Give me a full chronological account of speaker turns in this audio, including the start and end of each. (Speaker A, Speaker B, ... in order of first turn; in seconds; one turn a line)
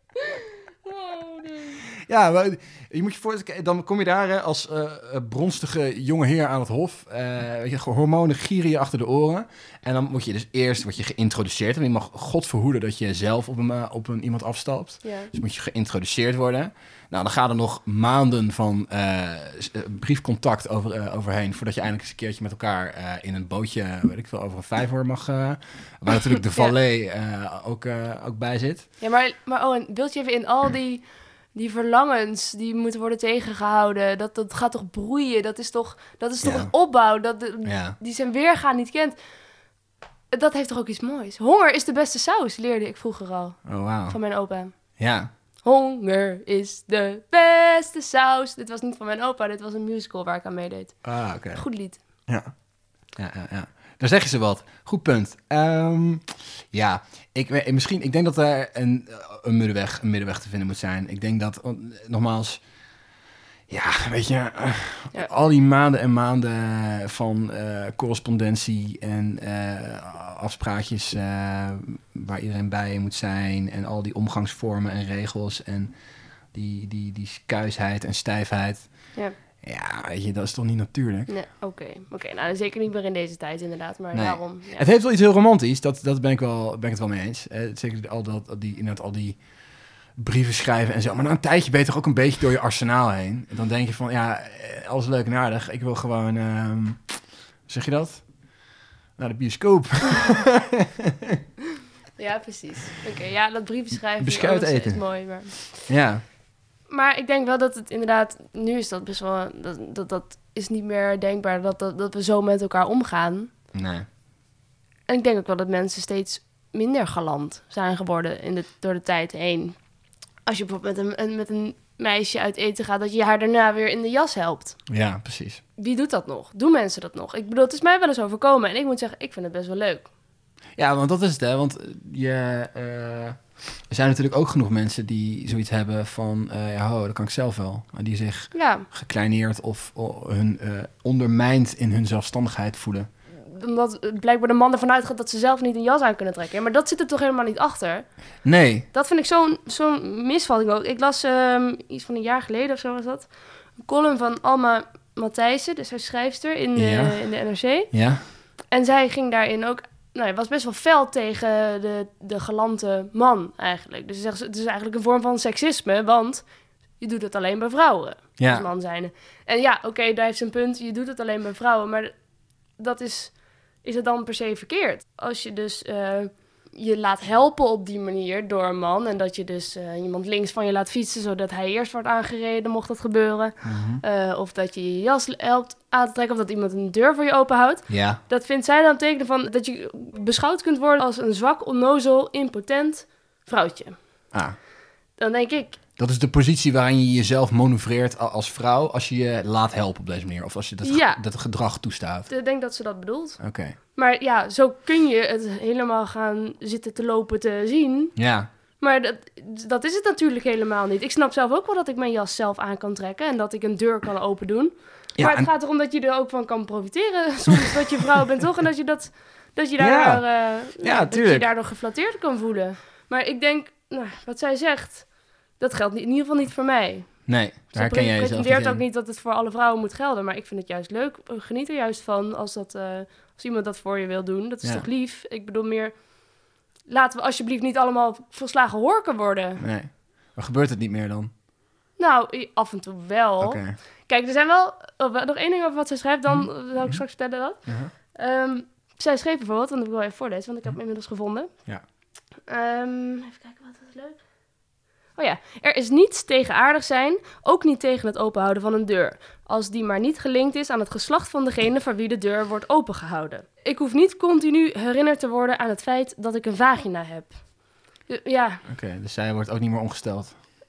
Speaker A: 0.2-1.8
Speaker B: 1.9-28.9
Speaker A: 15.0-15.3
Speaker A: 29.0-39.2
Speaker B: 36.4-36.7
Speaker B: 37.6-38.0
Speaker A: 40.3-44.8
Speaker B: 43.6-44.2
Speaker B: 45.0-45.3
Speaker A: 45.6-51.0
Speaker B: 51.0-51.6
Speaker A: 51.5-52.0
Speaker B: 53.1-62.6
Speaker B: 63.7-75.9
Speaker B: 76.5-79.1
Speaker B: 79.6-81.3
Speaker A: 81.3-84.8
Speaker B: 84.1-89.4
Speaker B: 90.2-98.3
Speaker B: 99.2-101.4
Speaker A: 102.2-105.9
Speaker B: 104.2-106.2
Speaker A: 106.9-113.5
Speaker B: 113.7-114.0
Speaker A: 115.1-119.8
Speaker A: 120.4-124.8
Speaker B: 124.9-125.6
Speaker A: 125.8-130.1
Speaker B: 130.8-143.1
Speaker A: 138.5-138.9
Speaker A: 143.4-148.1
Speaker B: 148.4-148.9
Speaker A: 148.9-157.9
Speaker B: 156.8-157.3
Speaker B: 157.9-158.2
Speaker A: 158.7-166.4
Speaker A: 167.0-172.1
Speaker B: 168.4-168.7
Speaker A: 172.8-193.9
Speaker B: 183.6-184.0
Speaker B: 187.9-188.2
Speaker A: 195.2-195.8
Speaker B: 196.0-202.3
Speaker A: 200.8-201.2
Speaker A: 202.3-203.4
Speaker B: 203.4-203.8
Speaker A: 203.9-208.1
Speaker B: 208.2-208.5
Speaker A: 208.8-236.0
Speaker B: 215.2-215.5
Speaker B: 219.8-221.5
Speaker B: 227.2-228.8
Speaker A: 236.9-239.6
Speaker B: 239.6-241.3
Speaker A: 242.0-251.5
Speaker B: 243.4-243.8
Speaker B: 246.3-247.0
Speaker B: 247.7-247.9
Speaker A: 252.5-254.2
Speaker A: 255.2-267.4
Speaker A: 268.1-268.6
Speaker B: 268.6-270.3